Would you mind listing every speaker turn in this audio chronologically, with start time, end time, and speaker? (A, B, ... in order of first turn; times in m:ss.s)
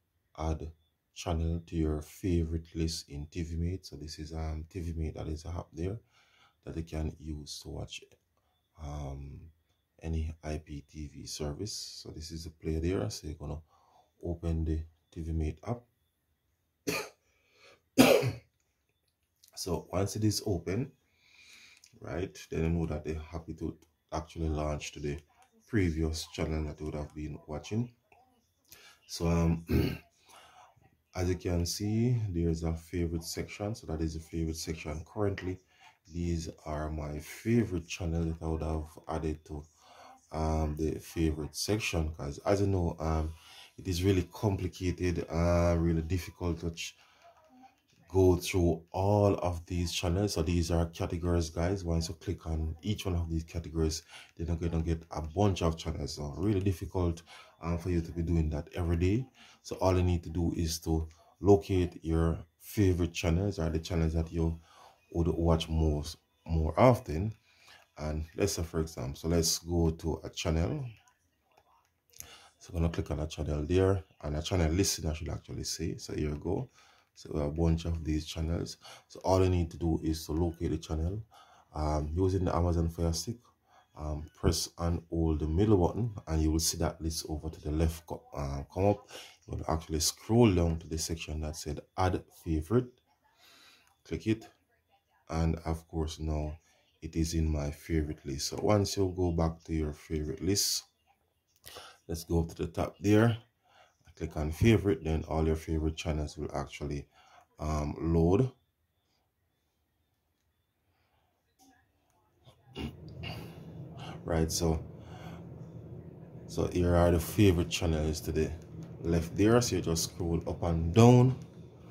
0:00.4-0:06.0 A
0:06.6-0:08.0 A
0:08.8-0:13.6 A
0:14.2-0:15.8 A
0:18.0-0:18.4 A
0:19.5-0:20.9 A
0:22.0-0:28.0 A
0:29.1-0:30.0 A
0:31.1-0:39.7 A
0:40.3-0:47.0 A
0:48.1-1:07.4 A
1:08.0-1:10.9 A
1:12.6-1:23.4 A
1:24.0-1:33.0 A
1:34.0-1:34.5 A
1:35.3-1:40.9 A
1:42.1-1:43.4 A
1:44.1-1:48.5 A
1:52.7-1:53.3 A
1:54.2-1:54.9 A
1:56.5-2:01.4 A